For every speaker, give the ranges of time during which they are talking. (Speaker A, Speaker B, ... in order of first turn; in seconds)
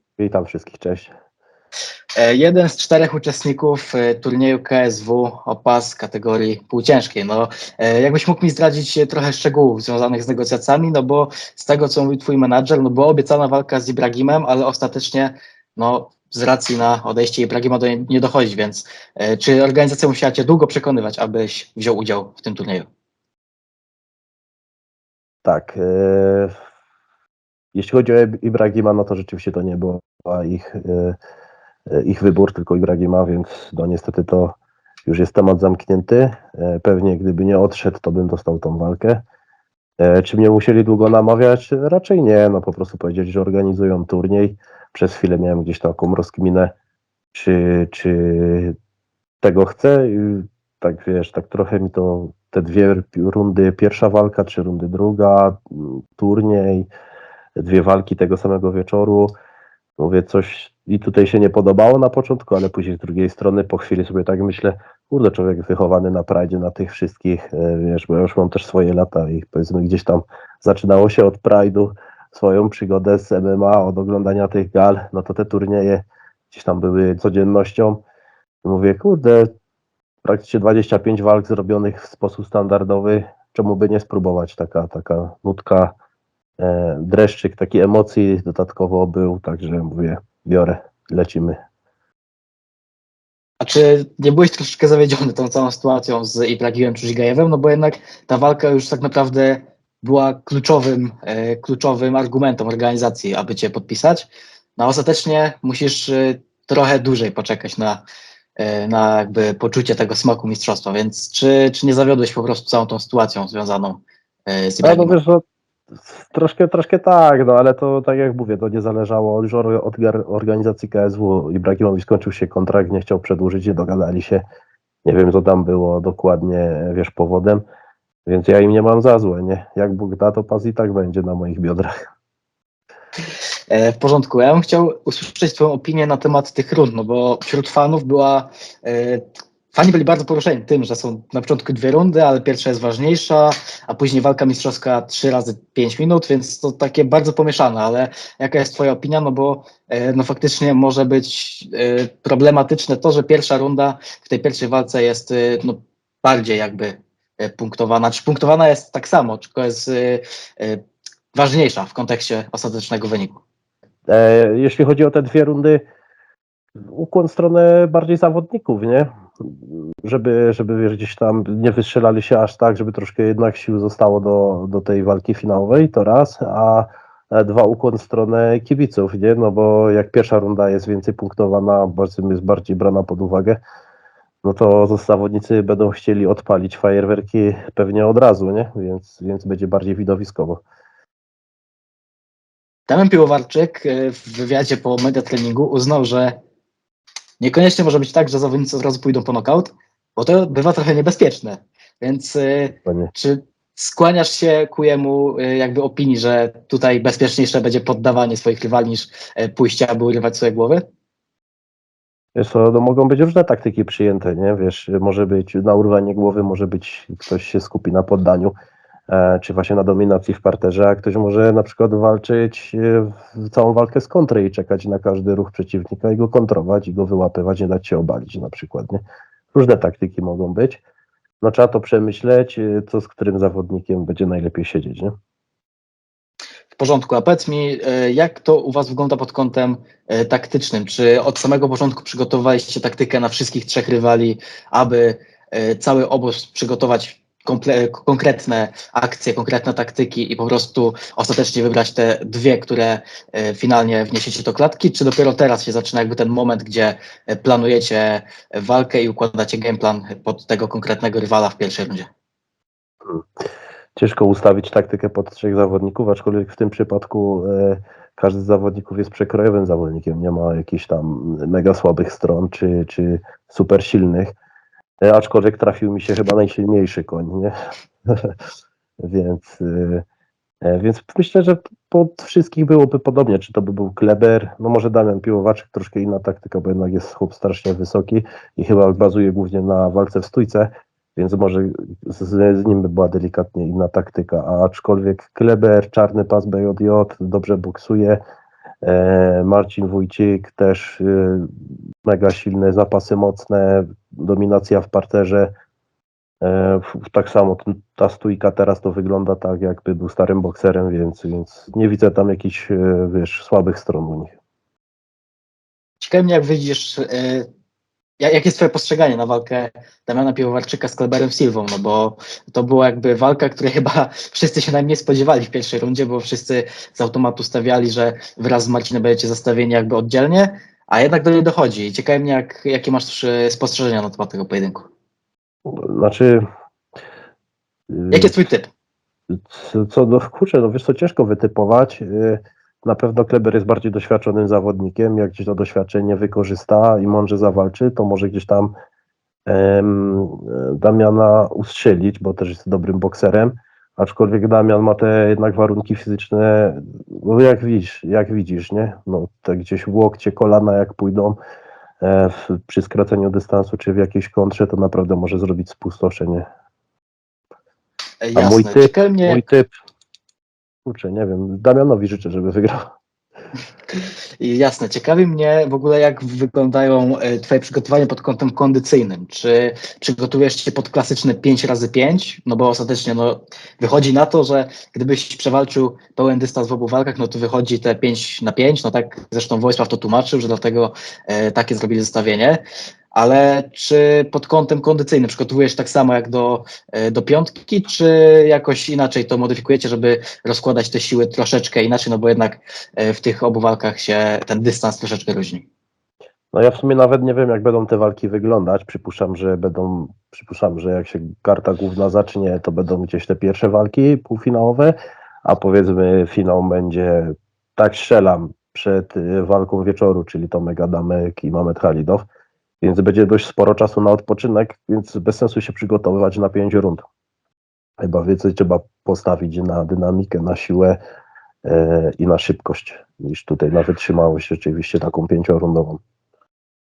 Speaker A: 0.2-1.1, 25.4-26.5, 27.7-31.2, 31.9-39.2, 40.0-46.7, 47.3-48.7, 49.4-56.9, 57.5-59.3, 60.0-78.0, 78.6-79.5, 80.2-85.9, 86.6-91.5, 114.8-115.4, 116.0-124.4, 125.0-127.6, 128.2-131.9, 164.1-165.8, 166.9-183.6, 184.4-190.6, 202.8-203.1, 212.3-218.5, 219.1-229.0, 229.5-230.8, 231.4-235.1, 263.9-274.3, 275.0-277.5, 278.1-278.4, 279.0-280.0, 280.6-298.2, 298.8-305.5, 306.4-314.4, 335.7-336.4, 337.9-338.3, 339.3-348.7, 349.5-361.4, 362.0-366.4, 368.3-369.7, 370.8-372.9, 406.5-422.3, 422.8-427.1, 428.0-431.0, 431.6-436.0
Speaker B: 2.2-22.9, 93.6-108.0, 108.6-115.2, 133.7-160.8, 161.3-163.4, 192.9-196.3, 197.4-210.8, 236.7-262.1, 316.0-317.4, 318.2-334.9, 338.1-338.7, 368.2-369.4, 374.4-392.6, 393.1-405.6